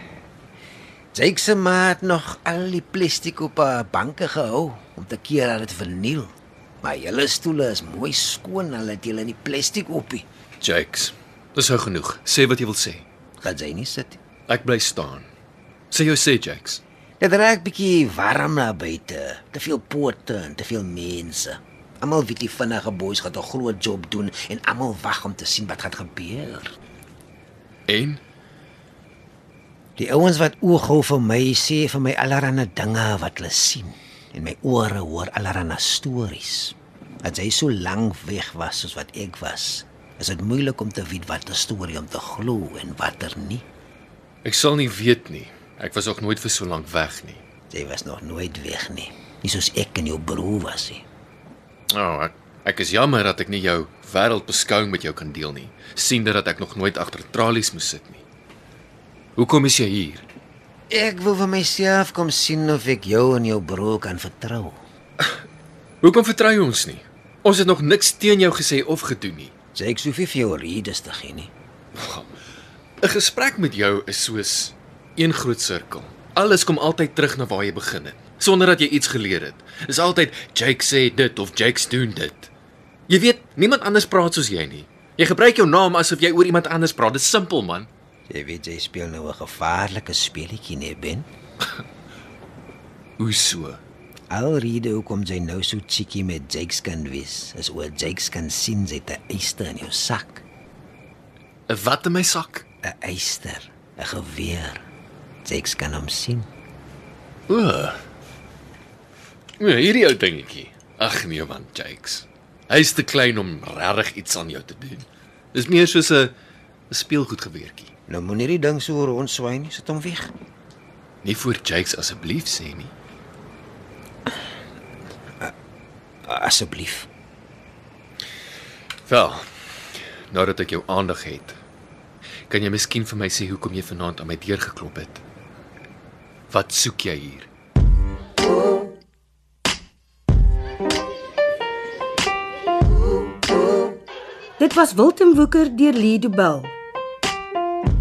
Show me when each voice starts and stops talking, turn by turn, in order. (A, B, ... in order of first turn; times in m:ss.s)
0:01.1-0:10.2 A
0:10.6-0:13.1 B
0:13.4-0:14.2 A
0:14.5-0:15.3 B
0:15.9-0:16.8 B
0:17.2-0:26.8 A
0:27.9-0:28.2 B
0:30.0-0:43.6 A
0:44.4-0:47.4 B
0:47.7-0:51.0 A
0:51.9-0:58.2 B
0:59.4-1:00.2 B
1:00.9-1:04.8 A
1:06.0-1:09.5 B
1:09.8-1:11.5 A
1:12.0-1:12.3 B
1:13.0-1:22.5 B
1:23.1-1:27.9 B
1:28.3-1:31.3 A
1:33.2-1:33.8 B
1:34.3-1:40.4 A
1:41.7-1:42.6 B
1:42.8-1:44.8 A
1:45.4-1:46.5 A
1:47.5-1:48.0 B
1:49.6-1:56.3 B
1:56.9-1:57.9 B
1:58.1-2:00.3 A
2:01.2-2:02.9 B
2:06.3-2:07.1 A
2:09.0-2:09.4 B
2:10.3-2:11.6 B
2:12.5-2:15.2 B
2:16.5-2:17.5 B
2:24.6-2:26.7 C